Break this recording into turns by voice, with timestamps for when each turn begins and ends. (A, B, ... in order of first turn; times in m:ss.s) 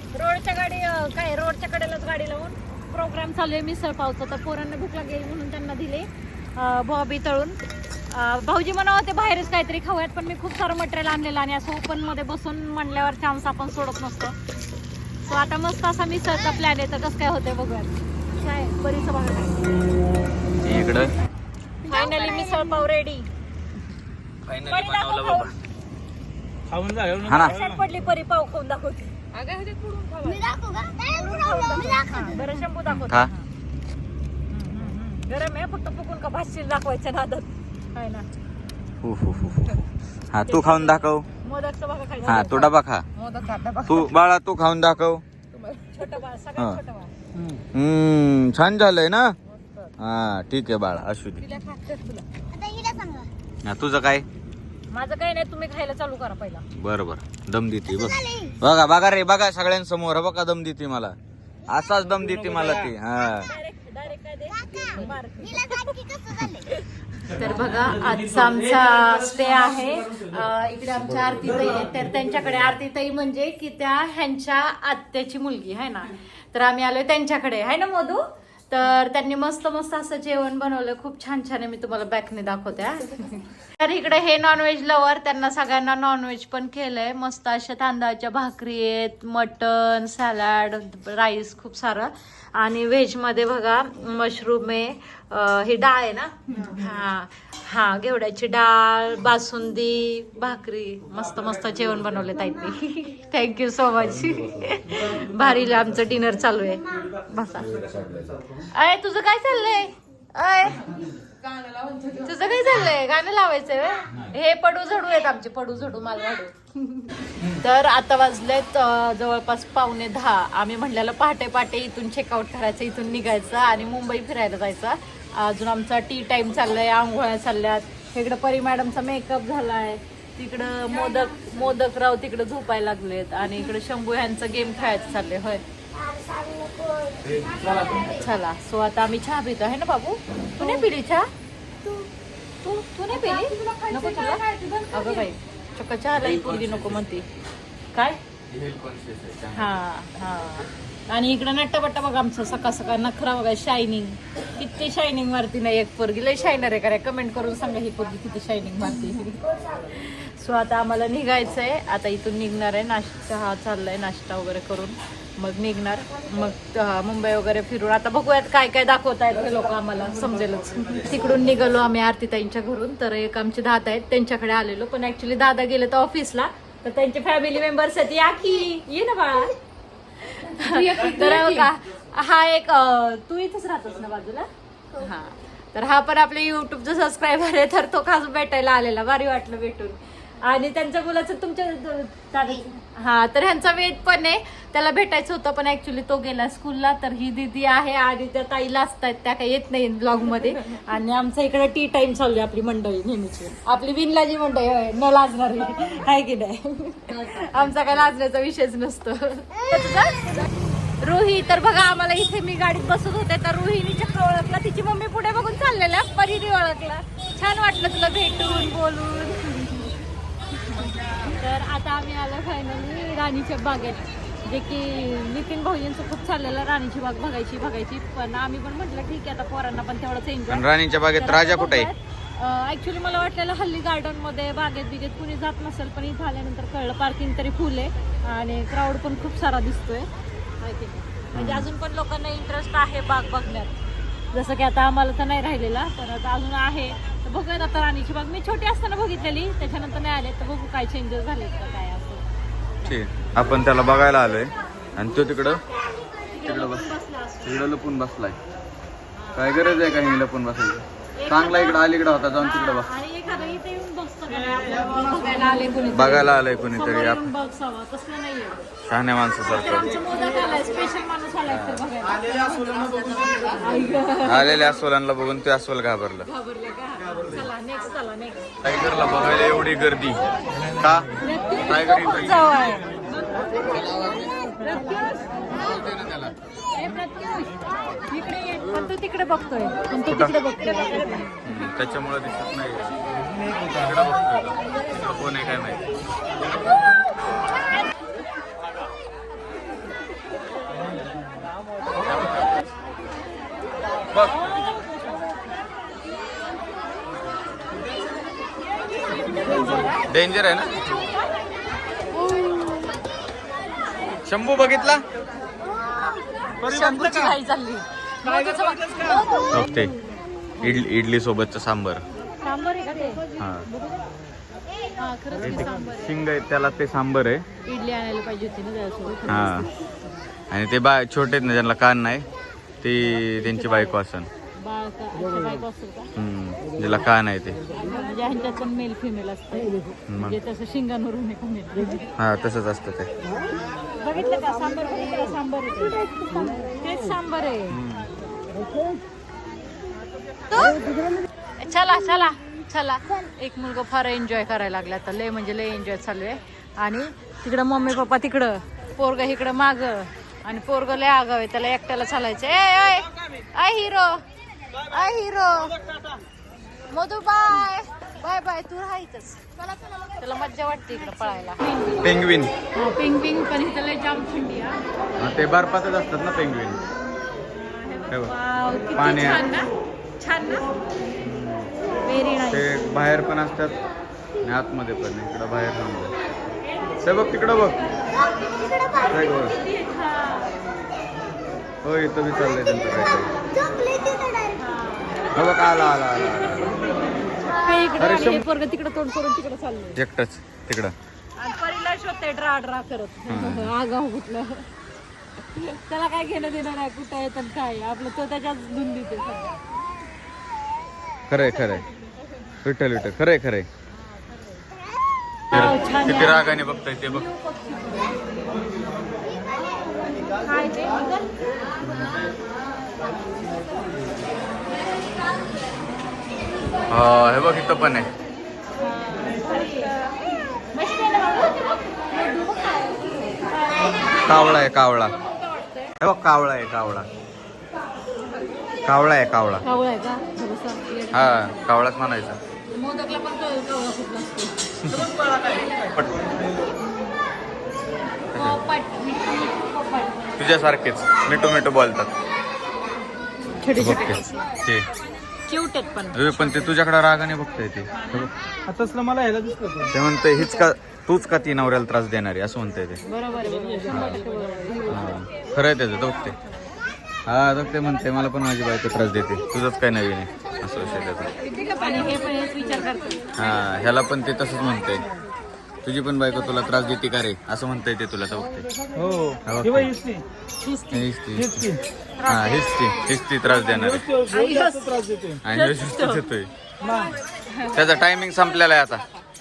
0:00.1-0:07.6 A
0:08.1-0:14.4 A
0:15.2-0:19.8 A
0:20.6-0:21.1 B
0:21.8-0:23.3 A
0:24.5-0:25.5 B
0:24.6-0:25.5 A
0:26.7-0:27.8 C
0:27.2-0:27.5 B
0:27.3-0:33.4 A
0:30.5-0:31.1 D
0:32.9-0:33.3 B
0:34.5-0:38.3 A
0:39.0-0:39.8 B
0:40.3-0:41.2 B
0:40.5-0:44.1 A
0:42.2-0:43.1 B
0:43.8-0:45.2 B
0:45.8-0:47.1 A
0:47.7-0:49.4 B
0:49.6-0:49.9 A
0:50.0-0:51.4 B
0:51.4-0:52.2 A
0:52.5-0:53.3 D
0:53.6-0:54.2 B
0:54.9-0:56.6 A
0:56.7-1:01.2 B
1:01.7-1:03.5 B
1:02.4-1:02.9 C
1:03.4-1:47.7 A
1:47.6-1:48.4 B
1:48.6-1:50.9 A
1:52.2-2:15.6 A
2:16.1-2:17.2 D
2:17.2-2:18.1 B
2:17.9-2:21.3 A
2:22.6-2:27.2 A
2:23.5-2:24.9 D
2:26.2-2:27.1 B
2:27.9-2:28.2 A
2:28.5-2:29.8 B
2:29.5-2:59.5 A
3:00.2-3:30.5 A
3:00.8-3:01.6 D
3:31.0-3:40.0 A
3:40.6-4:00.1 A
3:50.5-3:51.9 B
4:00.6-4:03.8 A
4:01.3-4:01.7 B
4:04.3-4:12.2 A
4:12.8-4:15.6 B
4:16.0-4:17.7 A
4:16.4-4:16.8 B
4:17.4-4:18.4 B
4:19.1-4:19.8 A
4:19.3-4:22.9 B
4:21.2-4:21.8 A
4:22.4-4:28.6 A
4:25.9-4:27.3 B
4:28.9-4:29.9 B
4:29.5-4:34.6 A
4:31.5-4:31.8 B
4:34.2-4:36.3 B
4:36.2-4:38.5 A
4:38.6-4:42.7 B
4:41.2-4:42.9 A
4:43.6-4:44.5 B
4:44.6-4:45.0 A
4:45.5-4:46.3 B
4:46.7-4:51.5 A
4:50.1-4:50.4 B
4:51.4-4:53.0 B
4:53.6-4:55.9 B
5:02.1-5:02.5 B
5:04.1-5:05.5 A
5:08.9-5:10.1 A
5:09.4-5:09.9 C
5:10.0-5:10.9 B
5:10.8-5:11.4 A
5:12.0-5:12.7 A
5:14.2-5:15.0 B
5:16.6-5:19.6 A
5:16.6-5:17.4 C
5:18.3-5:19.3 C
5:19.5-5:19.9 B
5:20.6-5:22.0 B
5:22.4-5:23.2 A
5:23.4-5:23.7 B
5:25.0-5:26.2 A
5:25.4-5:27.4 B
5:27.6-5:29.7 A
5:29.3-5:29.7 B
5:30.5-5:32.2 B
5:32.8-5:34.3 B
5:33.3-5:34.0 A
5:34.6-5:36.1 A
5:36.2-5:37.6 B
5:37.7-5:42.1 A
5:40.1-5:40.4 B
5:42.2-5:43.1 B
5:43.9-5:47.8 A
5:47.7-5:48.1 B
5:50.5-5:50.8 A
5:51.6-6:04.2 A
6:04.8-6:05.7 A
6:06.9-6:12.1 A
6:12.0-6:12.5 B
6:12.7-6:14.8 A
6:15.2-6:16.8 B
6:17.7-6:20.7 A
6:18.9-6:19.5 B
6:21.2-6:21.7 B
6:22.0-6:22.9 A
6:22.5-6:23.8 B
6:24.4-6:26.1 B
6:27.0-6:27.8 B
6:27.8-6:30.5 A
6:29.0-6:29.5 B
6:31.8-6:33.3 B
6:33.7-6:34.5 D
6:34.5-6:35.7 A
6:35.3-6:36.8 B
6:36.6-6:40.0 A
6:38.0-6:38.4 B
6:40.0-6:40.9 B
6:41.4-6:44.7 A
6:43.3-6:43.7 B
6:45.4-6:49.6 A
6:51.3-6:51.8 B
6:52.6-6:53.7 B
6:53.9-6:54.6 A
6:55.5-6:56.5 A
6:55.5-6:57.3 B
6:57.2-6:58.4 A
7:00.2-7:01.3 A
7:01.8-7:02.2 B
7:06.9-7:08.1 B
7:08.7-7:10.0 A
7:10.7-7:14.5 A
7:14.2-7:15.1 B
7:15.4-7:15.9 A
7:16.0-7:17.1 B
7:18.8-7:19.6 B
7:19.6-7:21.5 A
7:21.1-7:22.4 B
7:22.7-7:25.9 A
7:25.9-7:26.3 B
7:28.3-7:28.6 B
7:28.3-7:30.3 A
7:30.4-7:32.1 B
7:33.6-7:34.5 A
7:33.7-7:34.8 B
7:35.5-7:36.7 A
7:36.1-7:38.3 B
7:38.7-7:39.9 C
7:39.9-7:43.0 B
7:43.0-7:45.1 A
7:43.4-7:44.7 C
7:43.9-7:44.2 B
7:44.8-7:46.4 B
7:47.2-7:51.3 B
7:50.8-7:53.4 A
7:53.4-7:55.0 B
7:55.8-7:58.7 B
7:58.9-8:00.2 C
7:59.4-7:59.9 B
8:00.6-8:01.1 A
8:00.9-8:01.7 B
8:01.3-8:01.8 C
8:02.2-8:03.2 A
8:02.2-8:04.0 B
8:03.6-8:05.4 C
8:04.3-8:04.9 A
8:05.4-8:06.5 B
8:05.5-8:06.2 A
8:06.8-8:07.2 C
8:07.3-8:07.8 A
8:07.7-8:09.0 B